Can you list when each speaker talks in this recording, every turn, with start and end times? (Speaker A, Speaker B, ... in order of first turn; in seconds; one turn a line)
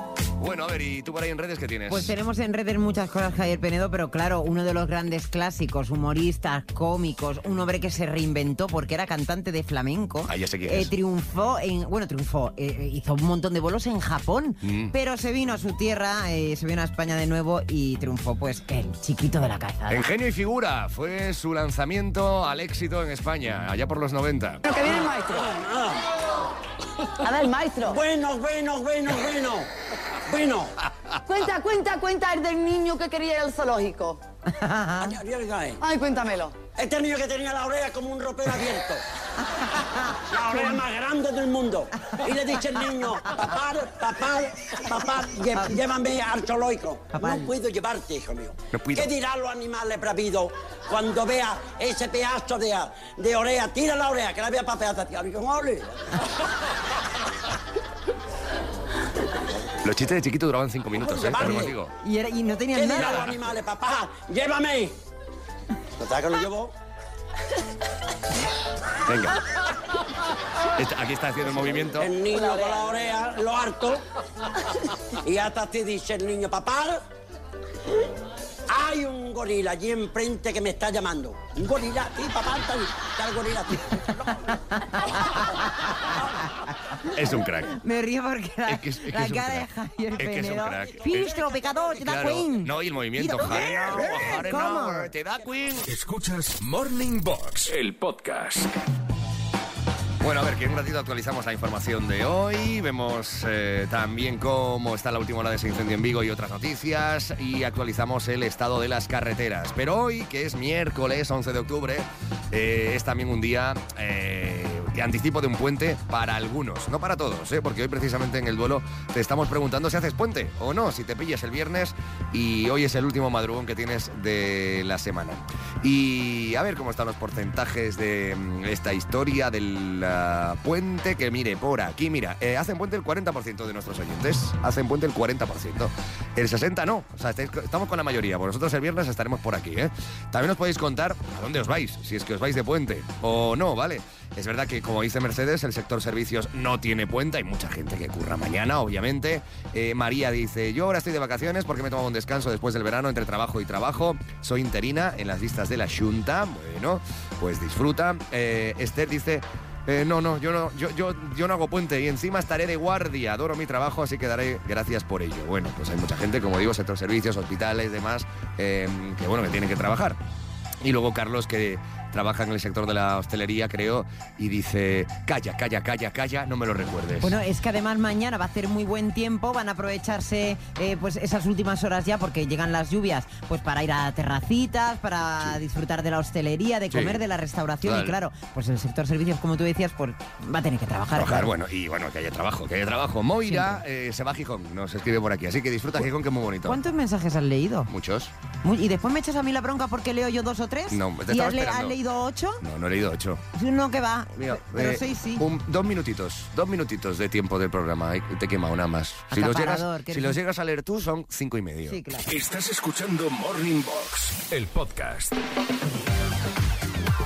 Speaker A: 0.4-2.1
Speaker B: 1.9-20.1
Speaker A: 10.2-10.9
Speaker A: 14.6-14.9
Speaker A: 19.9-24.6
Speaker C: 24.6-25.5
Speaker D: 25.4-26.0
Speaker C: 27.2-28.0
Speaker D: 27.9-29.7
Speaker D: 30.3-30.7
Speaker C: 31.2-34.2
Speaker B: 34.5-35.1
Speaker D: 35.0-35.8
Speaker C: 35.8-36.6
Speaker D: 36.7-39.0
Speaker D: 40.3-56.0
Speaker B: 47.1-47.5
Speaker A: 48.7-49.1
Speaker A: 59.8-61.9
Speaker D: 61.0-61.7
Speaker B: 62.0-63.3
Speaker D: 62.7-64.9
Speaker A: 63.0-63.4
Speaker D: 66.0-66.7
Speaker A: 69.0-69.4
Speaker A: 70.7-72.1
Speaker D: 71.8-74.0
Speaker D: 75.2-77.0
Speaker D: 78.7-84.0
Speaker A: 87.1-87.8
Speaker B: 87.7-95.1
Speaker A: 88.7-91.4
Speaker D: 91.1-91.9
Speaker A: 92.0-95.9
Speaker E: 95.8-98.7
Speaker A: 100.2-170.2
Speaker A: 170.8-177.4
Speaker B: 177.2-191.5
Speaker A: 186.9-187.2
Speaker A: 187.8-188.2
Speaker A: 191.1-196.8
Speaker B: 193.4-193.8
Speaker B: 196.7-197.9
Speaker A: 197.9-198.3
Speaker B: 198.6-202.6
Speaker A: 200.9-202.0
Speaker A: 202.6-203.4
Speaker B: 203.5-205.4
Speaker A: 204.4-212.0
Speaker B: 209.3-210.4
Speaker B: 211.9-212.3
Speaker E: 212.3-215.4